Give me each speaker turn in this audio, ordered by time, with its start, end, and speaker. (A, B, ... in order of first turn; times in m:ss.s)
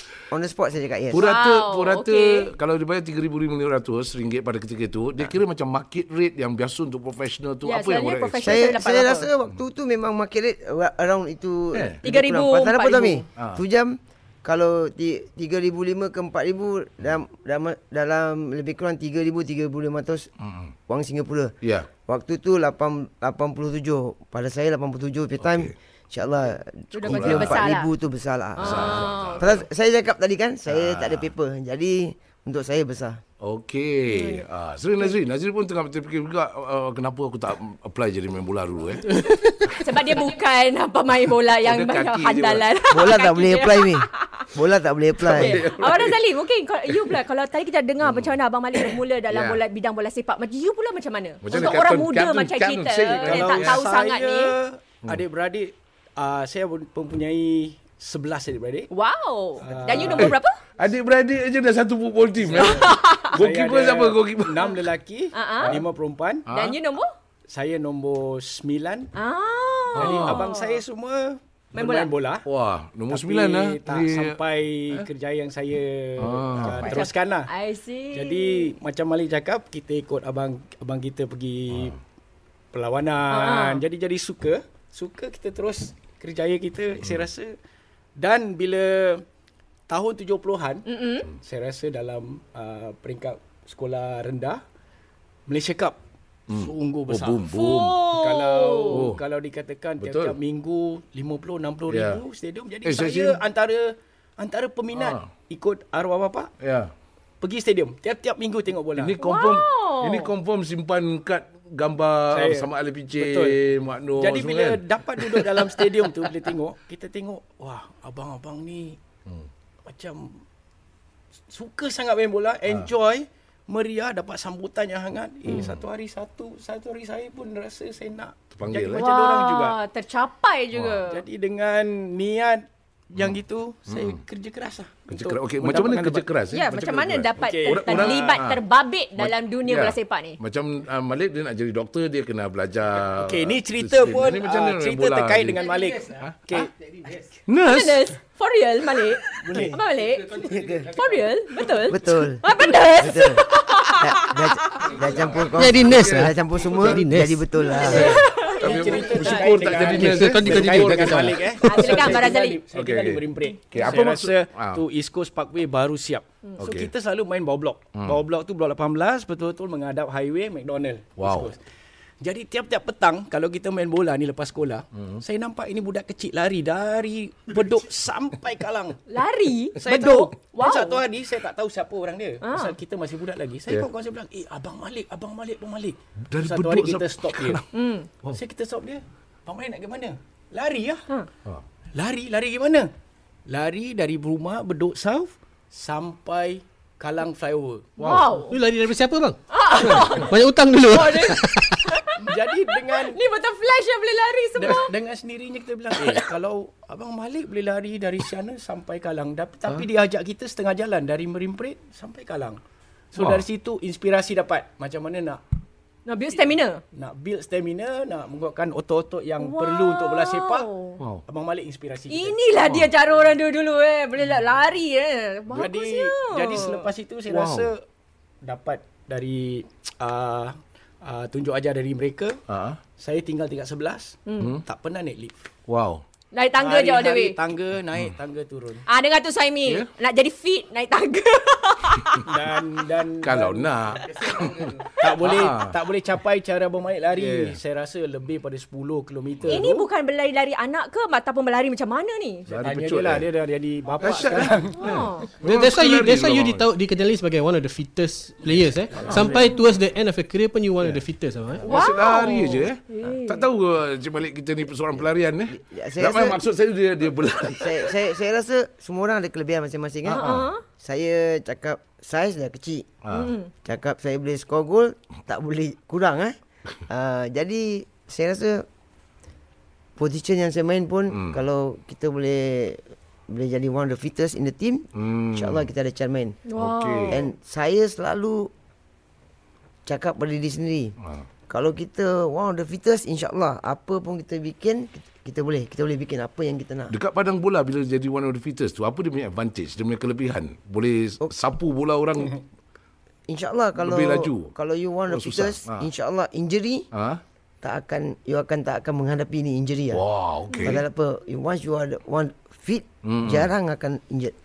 0:00.3-0:01.2 A
0:01.1-0:08.6 B
0:01.2-0:02.5 C
0:07.6-0:09.3 C
0:08.4-0:20.3 A
0:11.7-0:12.0 B
0:12.0-0:13.2 C
0:20.4-0:20.7 B
0:20.9-0:21.5 A
0:21.6-0:21.9 B
0:22.0-0:33.2 A
0:25.4-0:25.7 B
0:26.9-0:27.9 C
0:27.0-0:27.6 B
0:28.6-0:29.5 C
0:28.6-0:29.6 B
0:30.7-0:31.3 B
0:33.4-0:40.2 B
0:34.1-0:34.4 C
0:39.5-0:44.5 C
0:41.6-0:42.6 B
0:42.9-0:45.6 A
0:45.2-0:46.2 B
0:45.3-0:54.5 C
0:46.9-0:47.2 B
0:48.0-0:48.3 B
0:48.8-0:49.6 B
0:51.4-0:53.8 B
0:53.0-0:58.9 D
0:58.9-1:00.6 C
0:59.6-1:00.4 D
0:59.9-1:04.9 B
1:02.4-1:06.5 D
1:02.6-1:03.4 C
1:05.3-1:05.8 C
1:06.5-1:06.8 B
1:06.5-1:07.1 C
1:07.5-1:09.1 D
1:09.1-1:10.8 C
1:09.9-1:12.4 D
1:09.9-1:10.5 B
1:11.7-1:12.1 C
1:12.4-1:14.4 B
1:13.1-1:17.5 D
1:16.2-1:17.1 B
1:16.6-1:18.7 C
1:18.1-1:22.0 D
1:21.7-1:22.0 B
1:22.7-1:27.5 D
1:23.3-1:23.8 C
1:27.0-1:27.2 B
1:28.2-1:29.2 D
1:29.9-1:34.6 D
1:30.8-1:31.3 C
1:35.5-1:36.0 D
1:36.5-1:38.1 B
1:36.5-1:37.4 D
1:37.5-1:39.1 C
1:38.1-1:46.5 D
1:38.9-1:39.2 B
1:40.0-1:40.4 B
1:41.9-1:42.2 B
1:42.8-1:43.4 B
1:44.9-1:45.2 B
1:46.6-1:46.9 B
1:47.4-1:49.2 D
1:49.0-1:56.5 B
1:49.2-1:50.3 C
1:52.3-1:53.6 D
1:54.2-1:59.0 D
1:59.8-2:00.4 D
2:01.5-2:09.8 D
2:05.4-2:05.8 B
2:08.5-2:09.0 B
2:08.9-2:11.2 C
2:10.7-2:11.0 B
2:11.1-2:16.2 D
2:13.1-2:14.2 B
2:15.1-2:18.6 B
2:16.5-2:20.4 C
2:17.4-2:18.4 D
2:19.2-2:26.4 B
2:23.1-2:26.7 D
2:27.5-2:28.1 B
2:27.6-2:35.0 C
2:29.4-2:29.8 D
2:30.4-2:30.9 A
2:31.9-2:38.2 A
2:35.5-2:37.5 E
2:35.6-2:37.0 B
2:37.6-2:39.7 C
2:37.8-2:42.2 B
2:37.8-2:51.6 D
2:39.8-2:41.6 E
2:41.6-2:42.6 C
2:42.7-2:44.8 B
2:46.6-2:46.9 B
2:47.9-2:48.2 B
2:51.2-2:51.5 B
2:52.2-2:59.0 D
2:54.9-2:55.2 B
2:59.1-3:01.0 C
2:59.8-3:07.6 D
3:02.4-3:02.7 C
3:06.3-3:07.6 B
3:07.7-3:08.1 C
3:08.3-3:11.0 D
3:11.9-3:12.9 D
3:13.5-3:17.9 D
3:18.0-3:18.3 B
3:18.0-3:18.6 C
3:18.4-3:22.0 E
3:19.5-3:24.9 C
3:22.2-3:23.2 D
3:24.6-3:32.6 D
3:33.1-3:35.4 D
3:33.2-3:33.4 B
3:36.0-3:36.8 C
3:36.9-3:40.7 D
3:39.4-3:41.0 C
3:41.2-3:42.4 D
3:42.1-3:46.9 C
3:45.5-3:47.8 D
3:47.3-3:47.7 B
3:48.4-3:52.4 D
3:52.5-3:52.8 B
3:53.0-3:55.4 D
3:54.2-3:54.6 C
3:54.4-3:54.6 B
3:55.7-3:56.0 B
3:56.3-3:57.4 C
3:56.6-3:58.8 D
3:58.8-4:02.3 C
4:02.2-4:04.3 D
4:03.2-4:05.8 B
4:05.0-4:09.9 D
4:07.2-4:07.6 B
4:09.5-4:12.5 C
4:12.5-4:13.3 B
4:12.6-4:14.9 D
4:14.0-4:16.6 B
4:14.8-4:15.3 C
4:15.4-4:21.7 E
4:19.0-4:19.3 B
4:21.6-4:28.0 B
4:21.6-4:23.5 C
4:25.5-4:26.4 A
4:27.5-4:32.9 A
4:30.1-4:30.5 B
4:30.1-4:30.6 C
4:33.0-4:33.3 B
4:33.1-4:33.5 C
4:33.6-4:36.3 A
4:36.9-4:38.6 A
4:40.0-4:46.4 A
4:41.1-4:41.4 B
4:44.9-4:45.7 B
4:46.5-4:47.2 C
4:46.6-4:47.2 B
4:47.1-4:48.5 A
4:49.8-4:50.9 A
4:51.5-4:56.9 A
4:56.9-5:02.4 B
5:03.3-5:06.8 A
5:03.8-5:04.5 B
5:05.1-5:05.9 B
5:06.9-5:07.2 B
5:07.6-5:10.0 A
5:09.9-5:10.8 B
5:10.5-5:10.8 C
5:10.6-5:14.3 A
5:13.0-5:13.5 B